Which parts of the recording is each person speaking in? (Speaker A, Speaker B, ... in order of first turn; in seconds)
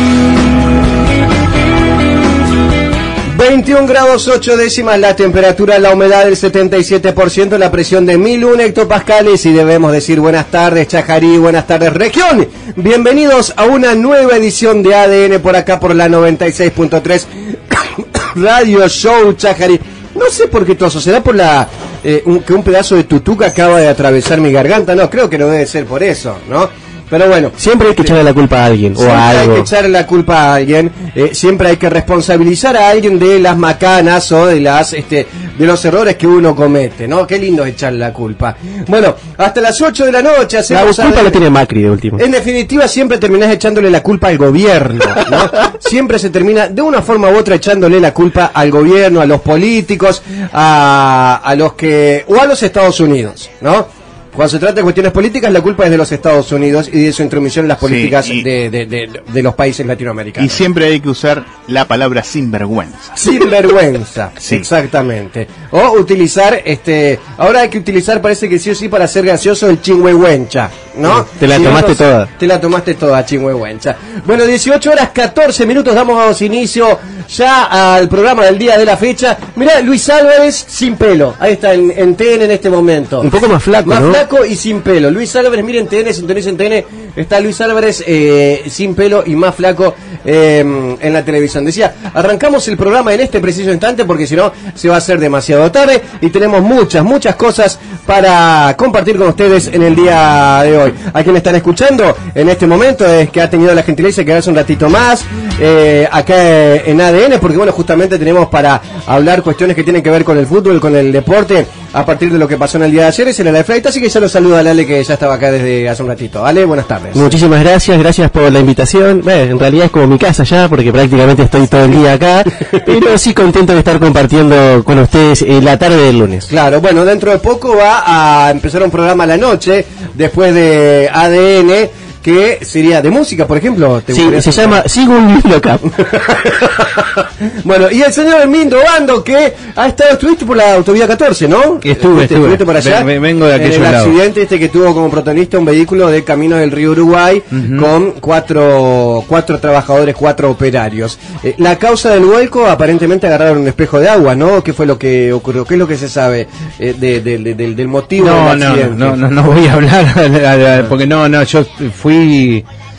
Speaker A: 3.2-28.1, 28.9-41.4, 42.2-60.6, 63.1-83.3, 83.8-117.3, 126.5-134.8, 135.9-159.2
Speaker B: 27.6-29.7, 40.7-42.2, 71.0-72.3, 83.2-84.2, 117.1-126.5, 134.1-135.8
Speaker C: 57.8-58.5, 60.4-63.1
Speaker D: 141.8-144.2, 147.5-147.9, 158.2-162.6